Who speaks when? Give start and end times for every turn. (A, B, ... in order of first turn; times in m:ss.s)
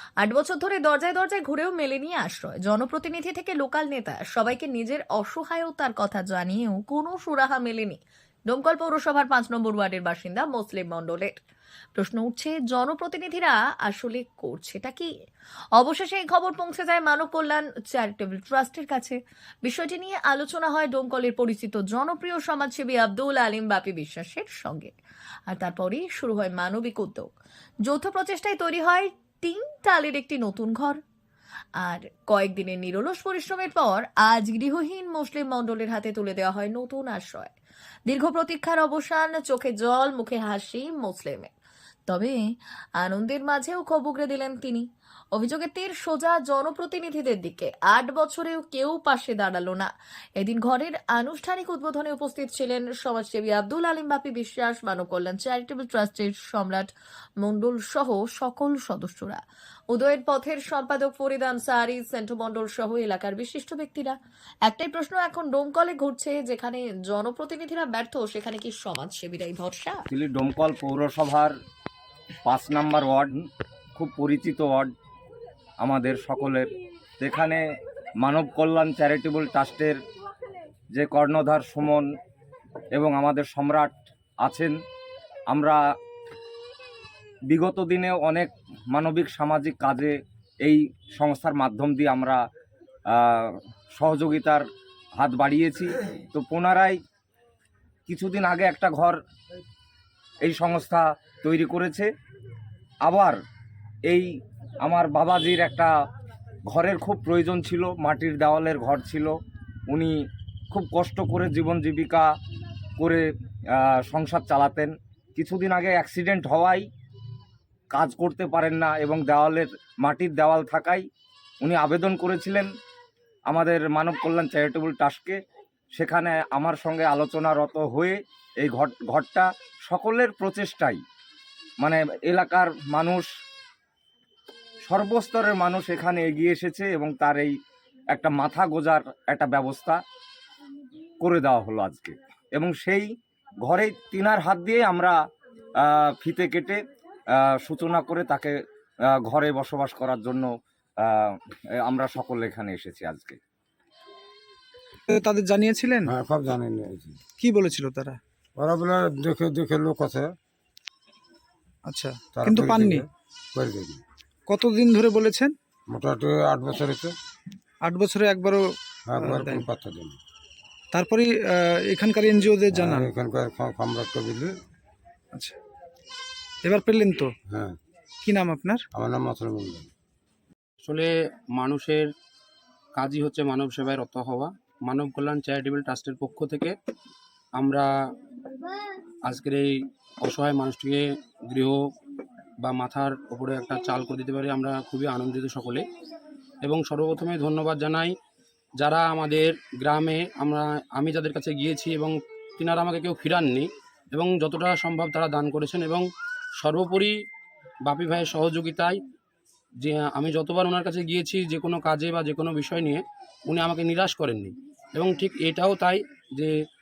0:00.2-0:11.4 A
0:12.0-0:15.1 A
0:15.8-0:24.9 A
0:25.5-0:27.3 A
0:27.8-0:31.0 A
0:31.8-0:37.5 A
0:38.1-0:41.5 A
0:42.1-0:42.4 A
0:43.0-0:56.9 A
0:57.4-1:10.0 A
1:10.1-1:11.5 B
1:12.4-1:14.9 B
1:15.8-1:17.6 B
1:18.2-1:20.0 B
1:20.9-1:22.1 B
1:22.9-1:24.7 B
1:25.5-1:25.8 B
1:27.5-1:32.4 B
1:33.1-1:37.0 B
1:38.1-1:39.2 B
1:40.4-1:42.1 B
1:43.0-1:43.4 B
1:44.8-1:45.9 B
1:46.7-1:49.4 B
1:49.9-1:50.2 B
1:50.7-1:52.3 B
1:53.0-1:56.8 B
1:57.9-2:01.0 B
2:01.6-2:02.7 B
2:03.5-2:05.4 B
2:05.9-2:11.0 B
2:11.8-2:13.3 B
2:14.8-2:17.6 B
2:18.1-2:20.0 B
2:21.2-2:23.1 B
2:23.6-2:25.2 B
2:25.8-2:26.8 B
2:27.3-2:30.5 B
2:31.0-2:33.4 B
2:35.1-2:36.1 C
2:36.0-2:37.2 D
2:37.4-2:38.2 C
2:38.6-2:40.3 D
2:41.8-2:43.0 C
2:42.3-2:44.0 D
2:44.5-2:45.5 C
2:45.9-2:47.1 D
2:47.8-2:49.6 C
2:49.1-2:50.2 D
2:50.9-2:53.1 C
2:52.7-2:54.5 D
2:56.6-2:57.3 C
2:57.5-2:57.8 D
2:58.2-2:58.8 C
2:58.9-2:59.9 D
3:00.8-3:02.1 E
3:02.9-3:06.7 E
3:07.6-3:07.9 E
3:09.2-3:11.8 E
3:12.6-3:15.9 E
3:16.6-3:18.1 E
3:18.8-3:26.0 E
3:26.6-3:27.1 E
3:27.8-3:29.0 E
3:29.8-3:36.5 E